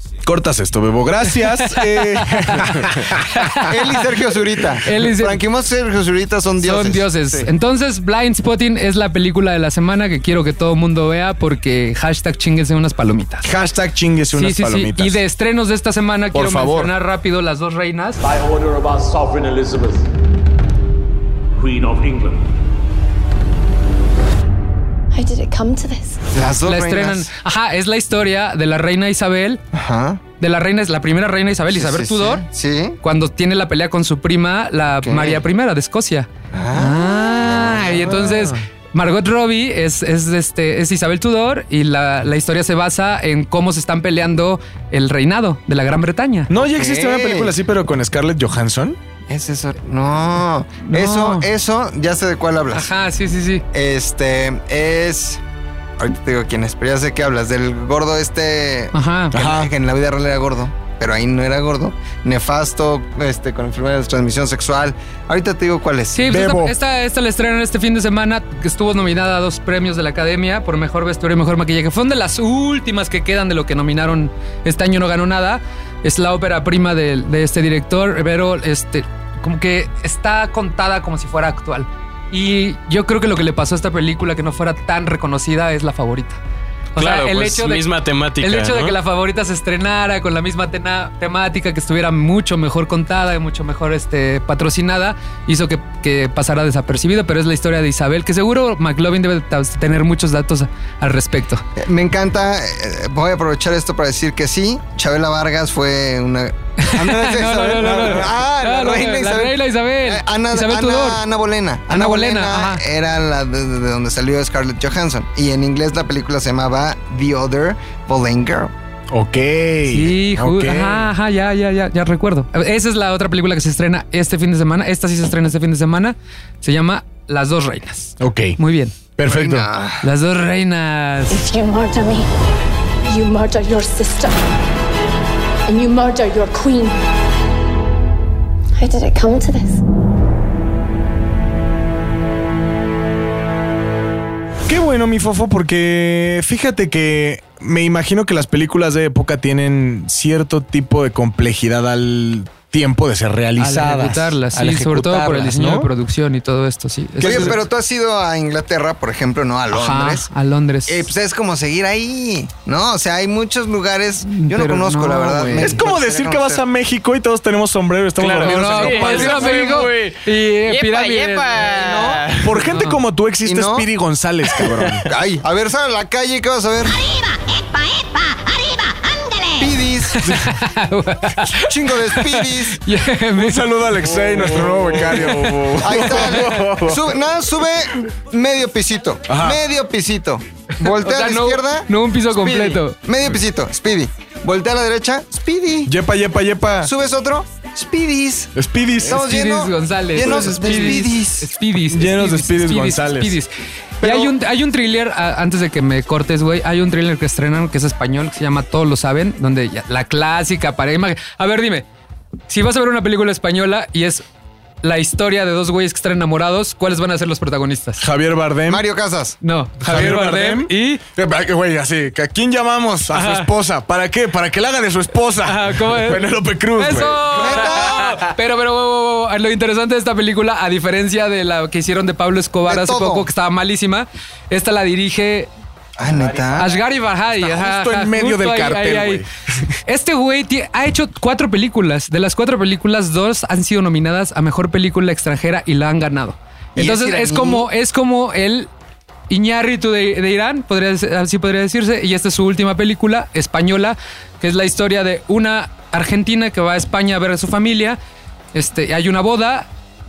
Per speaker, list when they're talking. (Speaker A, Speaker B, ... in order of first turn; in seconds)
Speaker A: 0.2-3.2, 13.4-15.2, 16.3-16.9, 38.0-38.6, 46.5-49.0, 59.3-59.7, 66.2-66.8, 119.1-121.1, 128.2-128.6, 129.2-129.7, 144.7-155.9, 157.2-157.6, 165.5-169.8, 172.4-175.1, 183.4-187.1, 189.3-189.6, 195.9-196.9, 198.6-199.2, 200.2-201.1, 201.9-203.4, 204.0-204.3, 218.0-218.8, 219.8-227.8, 237.3-239.7
Speaker B: 1.5-3.9, 4.8-5.4, 6.6-13.5, 14.3-18.2, 26.6-29.6, 30.4-32.4, 33.0-46.5, 50.8-51.5, 52.7-53.6, 58.9-59.4, 66.1-86.4, 87.0-87.9, 88.4-101.6, 106.8-111.2, 111.9-112.8, 119.9-129.0, 130.0-131.4, 153.6-157.6, 159.7-161.1, 164.2-165.8, 168.4-171.5, 172.6-173.0, 180.1-183.8, 185.2-185.7, 190.8-193.0, 199.1-203.5, 204.0-211.9, 212.5-214.2, 214.8-218.0, 219.4-221.0, 223.1-223.5, 225.4-235.5, 236.6-239.2, 239.9-248.7, 249.3-258.0, 258.5-259.7
Speaker C: 3.6-7.5, 26.3-27.3, 29.7-30.2, 31.7-33.0, 35.0-35.4, 36.5-38.1, 46.5-47.5, 49.3-52.9, 53.7-55.4, 56.0-66.2, 101.8-118.7, 129.2-130.1, 157.2-160.3, 160.9-166.6, 171.6-172.2, 173.4-173.9, 174.9-177.0, 179.6-180.3, 181.5-182.8, 185.8-195.9, 196.8-198.5, 199.0-201.5, 218.7-219.4, 227.3-228.3, 232.7-233.3, 236.0-236.7, 246.8-247.7
Speaker D: 18.4-20.0, 21.8-22.2
Speaker E: 25.1-26.2, 131.3-132.3, 133.1-134.4, 135.7-137.0, 138.8-139.8
Speaker F: 87.0-89.0, 168.2-172.6, 184.0-186.9, 236.2-236.6